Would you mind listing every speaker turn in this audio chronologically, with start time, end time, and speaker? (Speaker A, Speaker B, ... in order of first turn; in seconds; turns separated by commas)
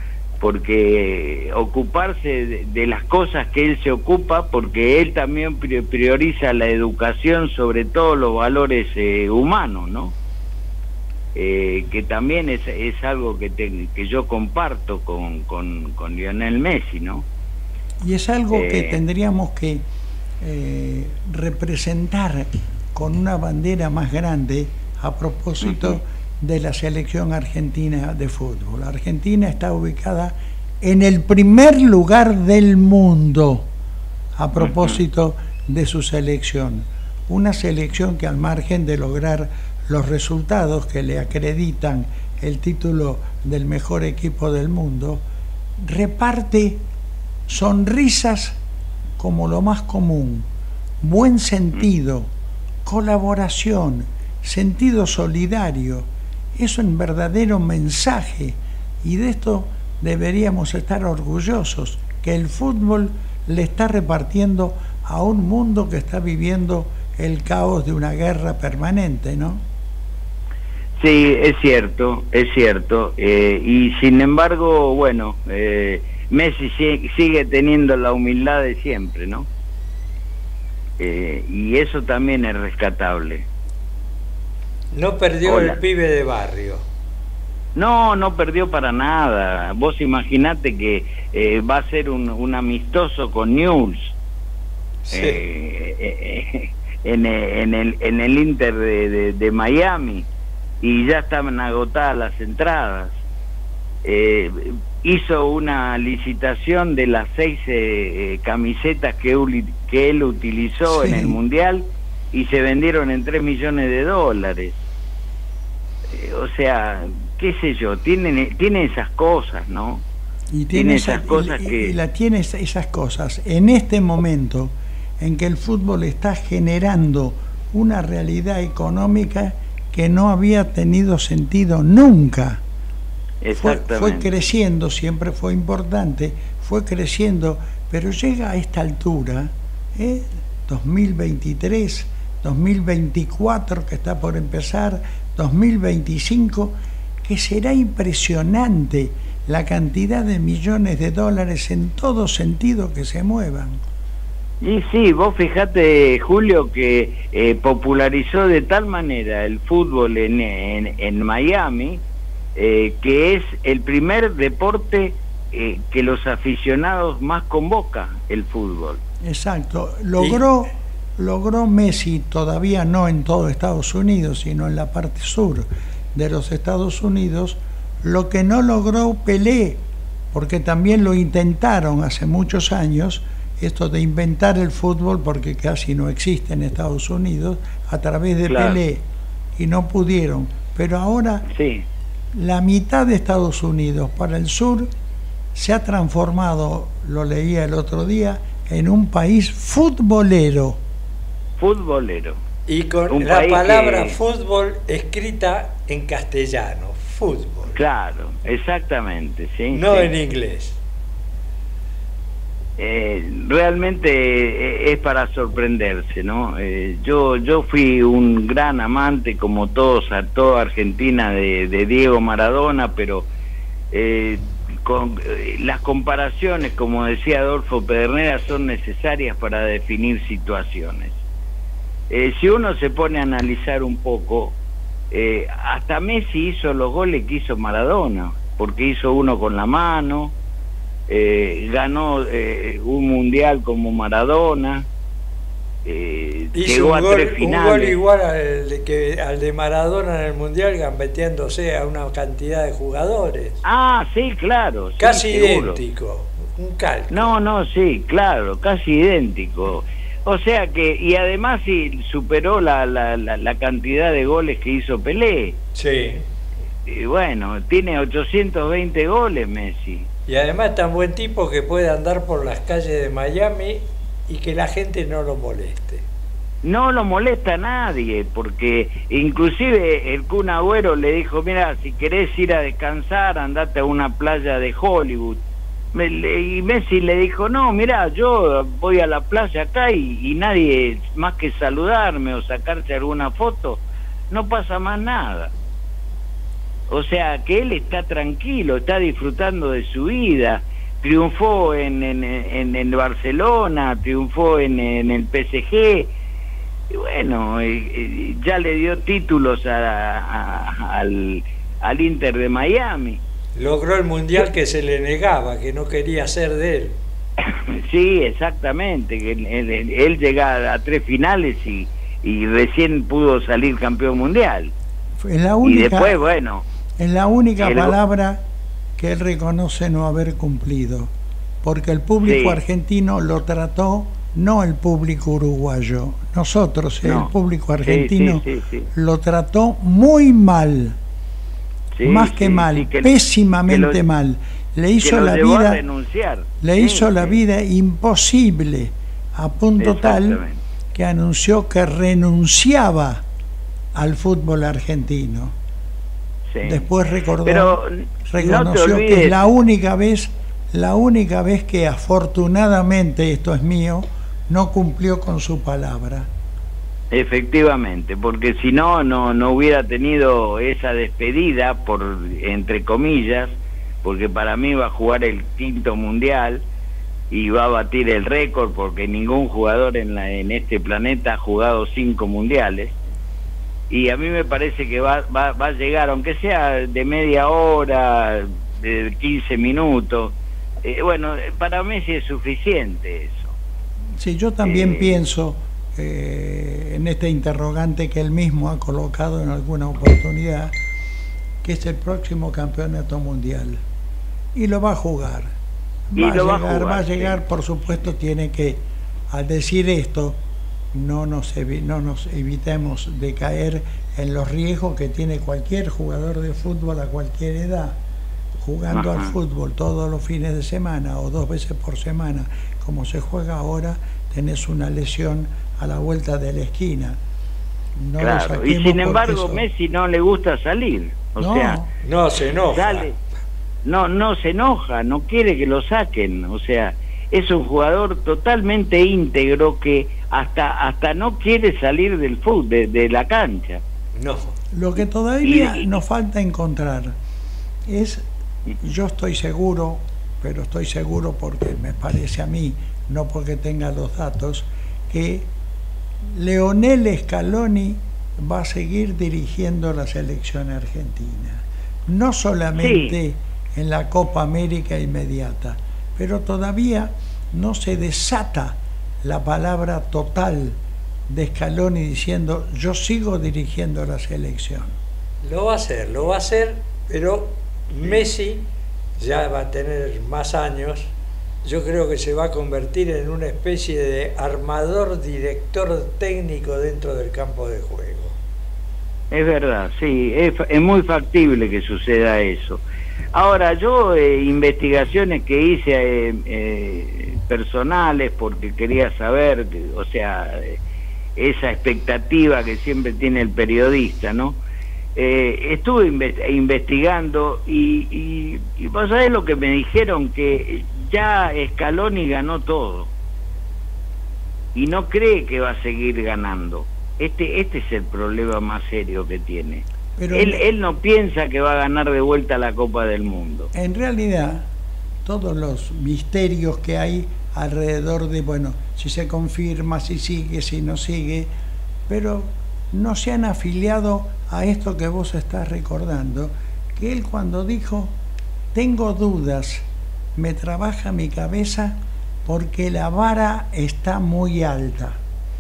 Speaker A: 0.4-10.1, Speaker A: 11.3-17.3, Speaker B: 18.0-19.9, Speaker A: 18.5-19.0, Speaker B: 20.4-33.7, Speaker A: 25.6-26.0, Speaker B: 34.4-45.2, Speaker A: 34.6-35.0, Speaker B: 45.8-46.8, Speaker B: 47.5-48.6, Speaker B: 49.2-50.5, Speaker B: 51.0-52.3, Speaker B: 52.9-69.6, Speaker A: 71.0-79.5, Speaker A: 81.0-83.5, Speaker C: 84.9-86.8, Speaker A: 85.5-85.8, Speaker A: 87.8-94.2, Speaker C: 95.1-95.4, Speaker A: 95.1-100.3, Speaker A: 100.8-103.2, Speaker A: 104.0-114.8, Speaker B: 110.9-111.4, Speaker A: 116.1-120.0, Speaker B: 120.5-132.6, Speaker A: 120.7-122.0, Speaker A: 133.4-134.3, Speaker B: 133.5-153.8, Speaker A: 154.6-162.0, Speaker A: 162.6-169.0, Speaker B: 169.2-189.1, Speaker C: 170.2-170.4, Speaker A: 188.5-188.8, Speaker B: 189.6-191.5, Speaker A: 191.5-191.9, Speaker B: 192.3-194.9, Speaker B: 195.6-200.8, Speaker A: 201.6-202.4, Speaker C: 202.7-207.8, Speaker A: 203.1-204.2, Speaker A: 207.7-210.1, Speaker C: 209.7-210.8, Speaker A: 212.8-223.3, Speaker A: 223.9-231.2, Speaker A: 232.1-234.6, Speaker A: 235.1-240.3, Speaker A: 241.1-244.9, Speaker A: 245.8-248.0, Speaker C: 246.5-253.6, Speaker A: 253.6-255.8, Speaker C: 255.0-257.3, Speaker A: 257.1-265.6, Speaker C: 265.8-266.2, Speaker A: 266.9-270.1, Speaker C: 270.3-276.1, Speaker A: 276.6-285.4, Speaker A: 285.9-295.5, Speaker A: 296.9-306.1, Speaker A: 306.9-313.2, Speaker C: 313.6-317.0, Speaker A: 317.4-324.7, Speaker B: 325.2-326.1, Speaker A: 325.6-326.7, Speaker B: 327.0-328.4, Speaker A: 327.6-328.0, Speaker B: 329.0-331.1, Speaker B: 331.6-341.0, Speaker A: 332.2-332.6, Speaker A: 337.0-337.3, Speaker A: 337.9-338.9, Speaker A: 342.0-344.0, Speaker B: 342.0-345.8, Speaker A: 345.0-347.4, Speaker B: 346.6-350.4, Speaker A: 349.8-350.6, Speaker B: 350.9-353.2, Speaker B: 353.9-355.6, Speaker A: 356.5-356.9, Speaker B: 356.6-357.8, Speaker A: 357.4-359.5, Speaker B: 358.3-366.3, Speaker A: 367.1-376.6, Speaker A: 377.3-383.0, Speaker A: 383.9-393.6, Speaker B: 394.2-400.8, Speaker A: 394.6-395.2, Speaker B: 401.6-403.8, Speaker B: 404.6-405.5, Speaker B: 406.1-410.4, Speaker A: 406.1-407.4, Speaker B: 410.9-418.0, Speaker B: 418.6-427.2, Speaker A: 418.9-419.4, Speaker B: 428.0-429.7, Speaker A: 428.2-431.8, Speaker B: 431.4-431.9, Speaker C: 432.0-433.1, Speaker A: 432.7-433.2, Speaker A: 433.9-443.8, Speaker C: 444.2-444.6, Speaker B: 444.7-447.1, Speaker A: 445.4-446.0, Speaker B: 447.9-448.2, Speaker B: 448.8-455.5, Speaker B: 456.3-470.8, Speaker A: 462.8-463.2, Speaker B: 471.3-475.0, Speaker C: 475.4-481.1, Speaker C: 481.6-488.4, Speaker A: 489.3-492.8, Speaker A: 493.3-500.8, Speaker A: 501.4-504.6, Speaker A: 505.2-513.1, Speaker A: 514.8-523.7, Speaker B: 520.2-520.6, Speaker B: 523.7-524.7, Speaker B: 525.2-531.5, Speaker B: 532.1-538.1, Speaker B: 538.7-545.2